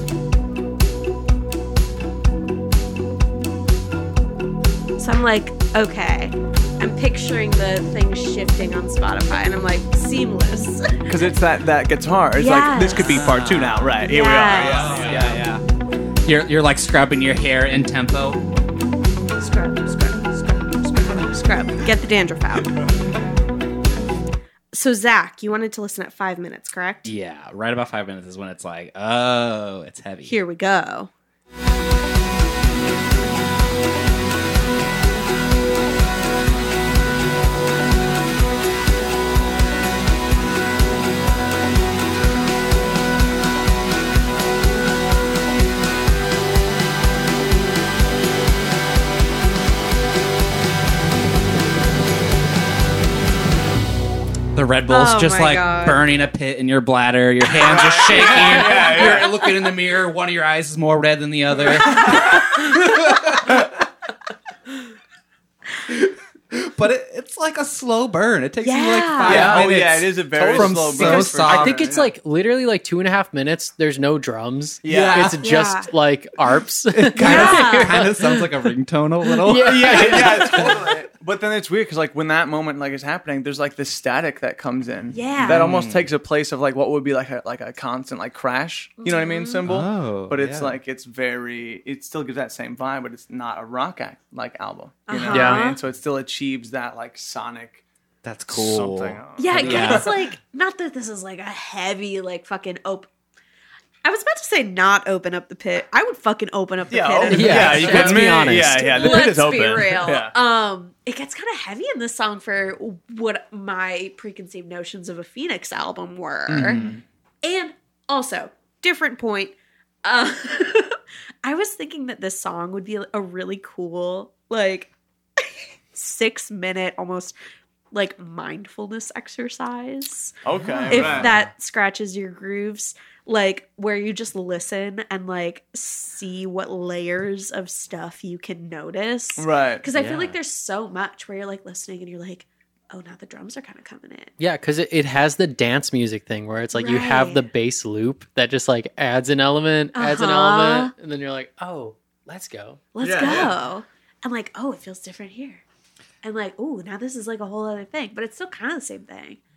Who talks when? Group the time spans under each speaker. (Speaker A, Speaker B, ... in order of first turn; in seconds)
Speaker A: 5.0-11.1, 12.4-13.3, 14.0-15.4, 19.4-22.8, 24.7-27.1, 30.3-31.1, 54.9-56.0, 58.5-59.5, 62.1-62.4, 68.6-69.6, 75.4-75.9, 77.2-78.0, 85.1-85.7, 89.0-89.6, 95.1-95.8, 99.4-103.1, 104.0-116.8, 117.4-127.3, 127.9-144.3, 146.8-147.5, 149.9-150.9, 152.9-155.6, 156.2-159.4
Speaker B: 11.1-15.4, 57.5-59.4, 69.2-72.1, 74.8-75.4, 79.6-97.8, 98.5-100.2, 106.9-110.3, 116.5-117.0, 130.4-131.3, 139.4-139.8, 153.0-153.6
Speaker C: 12.9-15.6, 16.2-18.4, 27.0-30.4, 54.5-63.7, 65.9-71.9, 74.8-75.5, 76.9-80.9, 85.4-86.1, 89.6-90.8, 98.2-100.2, 107.5-107.9, 116.7-117.0, 130.6-131.5, 139.9-140.4
Speaker D: 69.3-69.6, 70.4-78.5, 79.4-80.8, 95.3-95.6, 107.3-109.3, 144.4-152.8